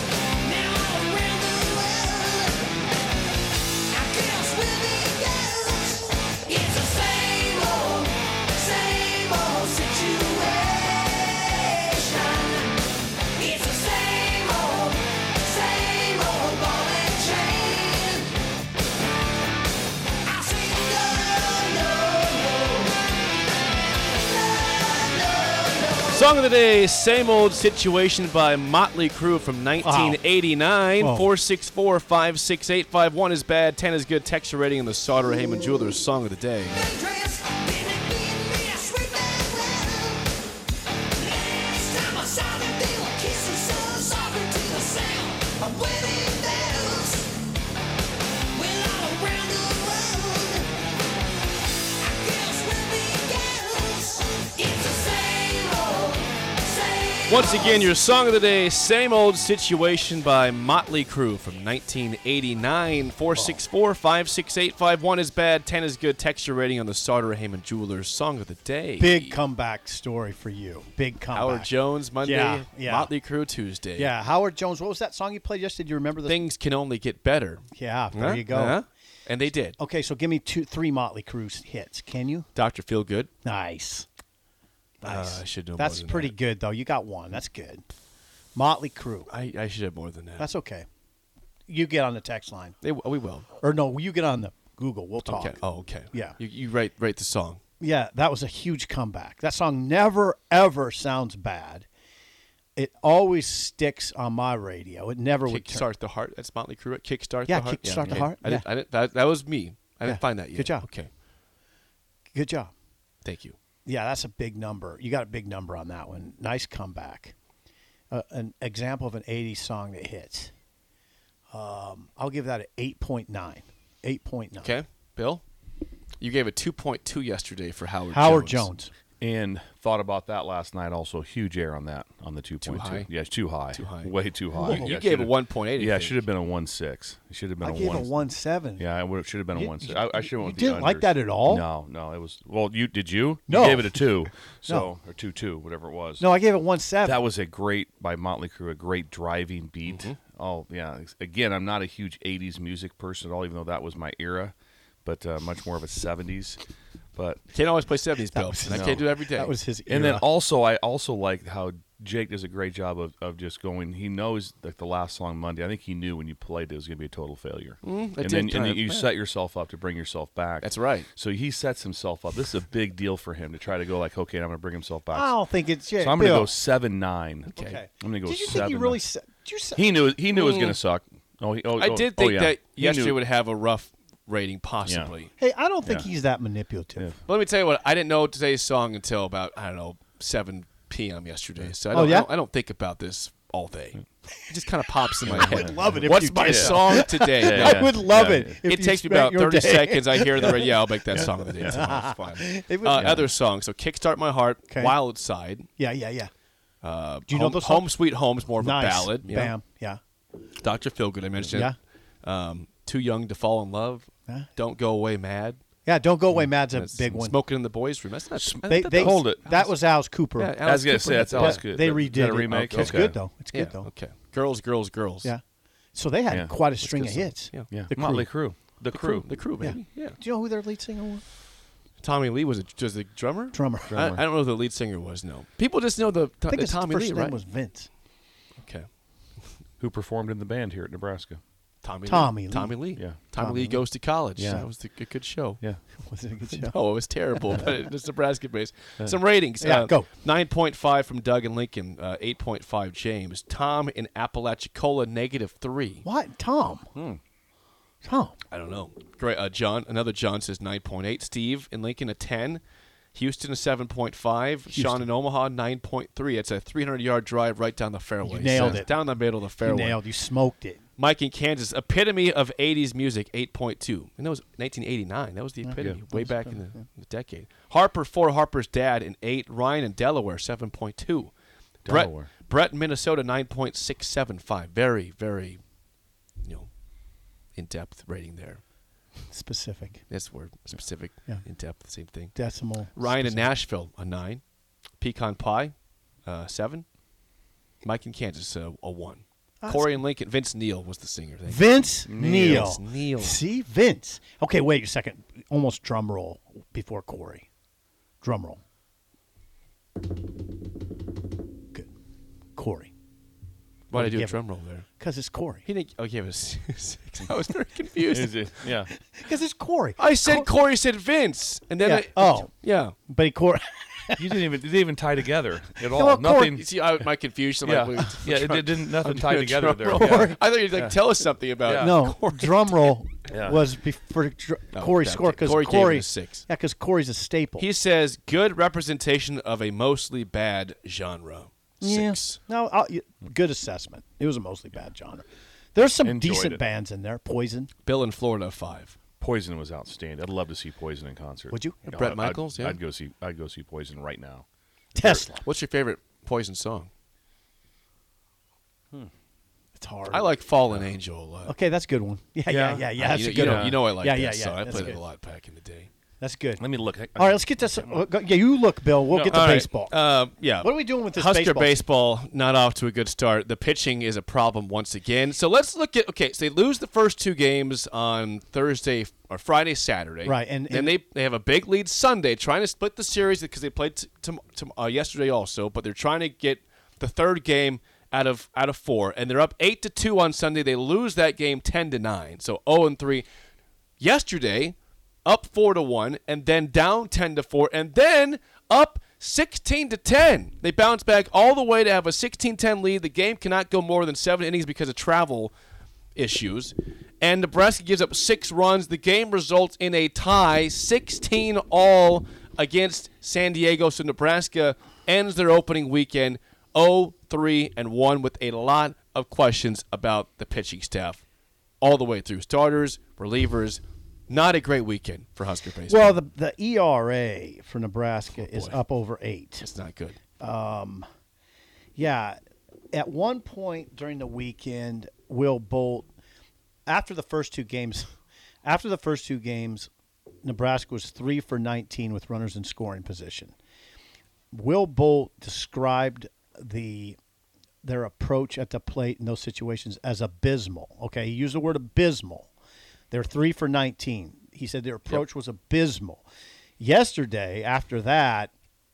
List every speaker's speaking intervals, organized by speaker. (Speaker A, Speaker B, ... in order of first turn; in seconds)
Speaker A: 0.4-2.9, 3.9-18.4, 20.2-23.2, 24.0-26.1, 36.7-40.3, 41.1-47.5, 48.5-50.8, 52.0-57.8
Speaker B: 26.1-36.8, 57.3-69.4, 71.3-74.1, 76.2-79.8, 82.5-83.3, 85.0-86.3, 89.3-90.5, 92.8-93.5, 95.3-97.6, 105.4-111.1, 113.2-113.5, 124.6-125.4, 126.2-128.7, 132.6-133.1, 133.7-136.2, 149.9-150.2, 157.5-159.6, 167.8-169.1, 170.6-171.1, 177.5-177.8, 180.3-180.8, 181.8-185.3, 187.3-205.7, 206.8-209.5, 210.6-215.6, 216.3-219.8, 220.3-221.7, 222.5-225.3, 226.8-227.7, 228.9-230.2, 232.0-237.4, 238.6-238.9, 241.8-245.6, 246.5-256.1, 258.5-262.6, 263.1-270.0, 271.0-281.3, 281.9-285.6, 286.4-286.7, 287.5-288.6, 290.1-292.4, 292.9-294.4, 295.0-296.9, 297.8-303.4, 313.9-314.9, 315.6-318.5, 320.0-322.9, 326.4-332.9, 334.7-336.5, 337.6-342.4, 347.8-348.9, 351.8-352.8, 355.4-356.9, 360.1-361.5, 363.0-365.9, 369.3-393.3, 394.0-405.5, 406.1-421.2, 421.8-426.1, 428.3-428.8, 429.6-430.2
Speaker C: 29.8-30.2, 31.0-31.3, 69.0-71.7, 72.2-73.1, 74.0-76.4, 77.7-78.8, 79.8-82.5, 83.4-84.0, 85.0-87.8, 88.5-89.3, 90.4-90.8, 91.7-92.8, 93.6-95.6, 96.1-96.4, 97.8-101.9, 102.8-105.9, 107.5-108.7, 110.0-110.9, 112.3-112.7, 113.8-117.3, 118.1-120.5, 121.5-124.7, 128.1-128.9, 134.6-135.0, 137.6-138.8, 139.5-141.6, 143.5-144.1, 146.2-147.2, 158.3-160.3, 175.1-176.5, 177.6-179.9, 185.4-187.1, 191.9-192.3, 195.2-203.3, 204.7-204.9, 205.8-206.3, 207.3-207.9, 208.6-210.0, 211.5-211.7, 215.8-217.4, 218.7-220.6, 221.2-223.9, 225.9-228.3, 229.6-231.2, 233.5-233.9, 236.5-237.9, 242.1-242.8, 243.3-243.8, 246.1-246.7, 249.6-250.1, 256.0-256.9, 258.0-258.3, 264.7-265.0, 268.2-269.0, 269.6-270.8, 275.6-276.6, 289.3-290.0, 292.3-293.5, 299.6-300.0, 301.4-307.5, 308.2-308.6, 312.6-312.9, 313.9-314.4, 315.0-315.6, 318.9-320.5, 321.8-322.5, 323.1-324.4, 325.9-326.5, 330.0-330.4, 331.7-337.7, 341.8-347.7, 351.5-352.0, 354.9-355.4, 359.8-360.3, 361.4-365.0, 366.2-366.6, 367.1-370.0, 370.6-371.8, 380.2-380.9, 425.9-429.6, 430.4-431.0, 431.9-432.4, 432.9-436.1, 436.9-438.1, 438.6-439.9, 440.4-443.5, 444.5-447.2, 447.8-452.5, 453.1-456.2, 456.8-458.5
Speaker D: 129.2-138.1, 138.8-146.3, 147.0-154.5, 155.0-156.6, 157.2-157.4, 158.7-159.1, 159.9-175.3, 176.0-179.0, 179.7-183.2, 184.8-185.1, 195.2-195.7, 196.4-198.5, 201.1-201.8, 203.0-203.2, 218.3-219.4, 220.6-223.2, 226.3-226.6, 227.7-229.3, 233.9-234.2, 239.8-241.4, 242.9-243.3, 244.3-244.7, 256.9-257.2, 281.8-282.3, 302.1-302.7, 318.1-318.9, 324.2-326.6, 327.6-330.9, 331.6-332.0, 333.3-333.6, 346.0-346.6, 349.2-355.3, 362.5-363.8, 366.6-368.1, 369.1-369.5